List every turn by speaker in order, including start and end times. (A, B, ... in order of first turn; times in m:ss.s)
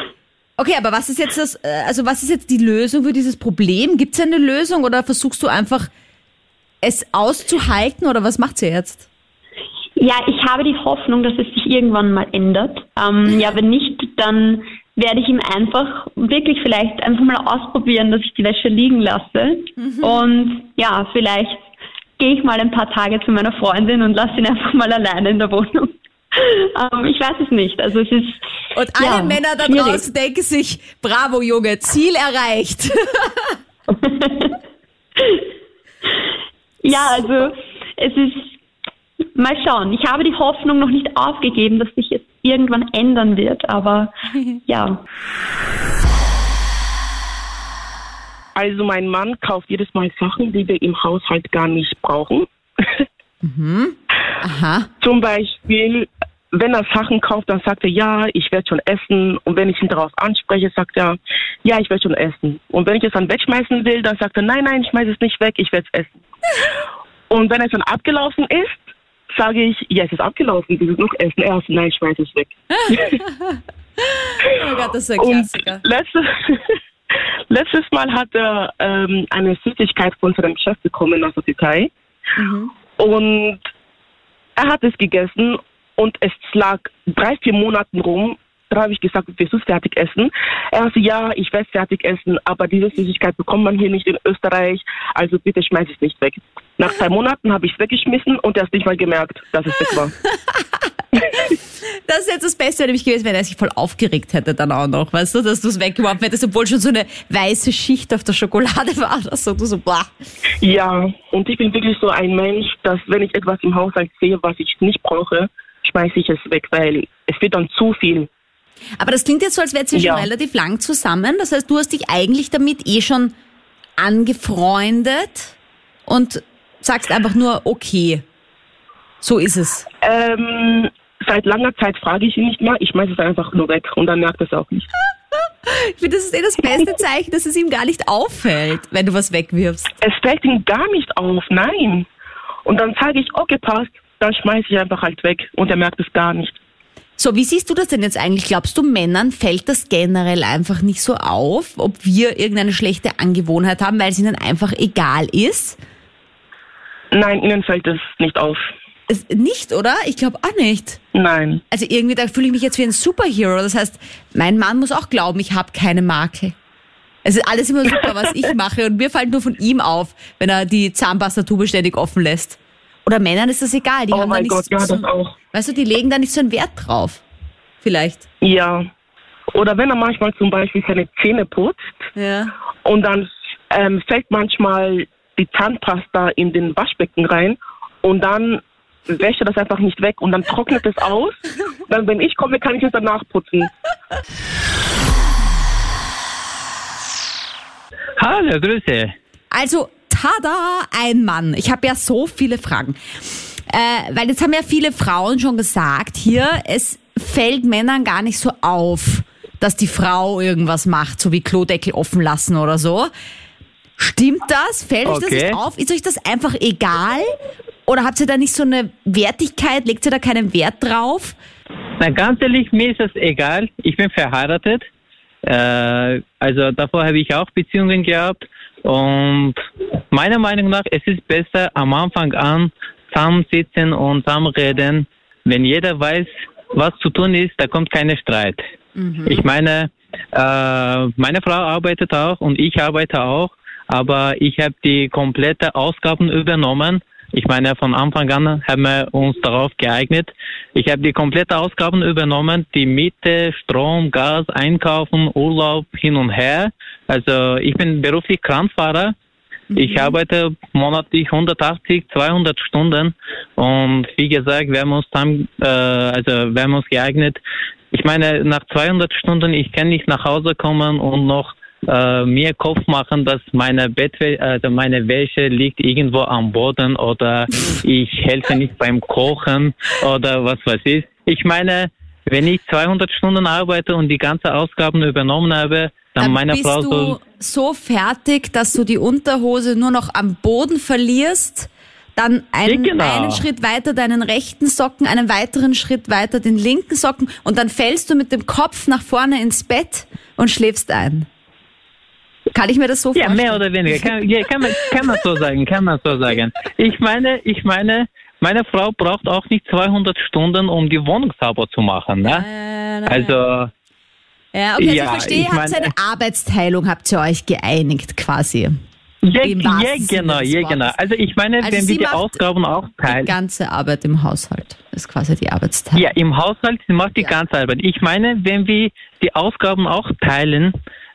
0:00.6-0:05.9 A
0:06.8-0:09.1 A
0:10.0-0:28.4 B
0:19.8-0:20.2 A
0:28.7-0:33.3 A
0:29.0-0:30.0 B
0:34.0-0:34.6 B
0:35.2-0:35.4 B
0:36.8-0:38.6 B
0:36.9-0:37.5 A
0:39.4-0:44.1 B
0:44.7-0:45.0 B
0:48.6-0:52.5 C
0:53.4-0:54.9 A
0:55.0-1:06.2 C
1:07.3-1:13.2 C
1:12.7-1:15.8 A
1:15.2-1:16.6 C
1:17.5-1:21.9 C
1:22.4-1:22.7 A
1:23.0-1:23.7 C
1:24.6-1:40.1 C
1:41.2-1:50.1 A
1:50.6-1:58.3 C
1:59.0-2:03.3 A
1:59.9-2:00.3 C
2:04.0-2:05.6 A
2:06.1-2:08.2 A
2:09.2-2:09.9 A
2:10.0-2:14.9 C
2:15.7-2:19.9 A
2:20.0-2:22.1 C
2:22.6-2:26.6 C
2:27.2-2:35.8 A
2:37.1-2:38.6 C
2:39.1-2:41.0 A
2:41.1-2:41.6 C
2:41.7-2:46.6 A
2:47.2-2:57.2 A
2:54.1-2:55.3 C
2:57.8-2:58.3 A
2:58.4-2:58.9 C
2:59.5-3:01.8 C
3:02.2-3:02.5 A
3:02.8-3:13.7 C
3:18.2-3:19.1 D
3:19.5-3:23.0 A
3:23.7-3:33.1 A
3:34.0-3:37.3 A
3:35.0-3:35.6 D
3:37.9-3:41.4 A
3:42.0-3:44.9 D
3:45.5-3:49.6 D
3:50.1-3:58.6 D
3:59.0-3:59.4 A
3:59.3-4:19.1 D
4:19.7-4:20.2 A
4:19.7-4:27.4 D
4:27.9-4:47.2 D
4:46.2-5:01.3 A
4:52.7-4:53.5 D
5:02.5-5:04.2 A
5:03.2-5:12.4 D
5:12.2-5:13.4 A
5:13.1-5:13.7 D
5:14.5-5:18.8 A
5:14.8-5:15.9 D
5:19.2-5:23.3 D
5:19.4-5:21.0 A
5:21.6-5:22.4 A
5:23.0-5:26.1 A
5:25.9-5:30.7 D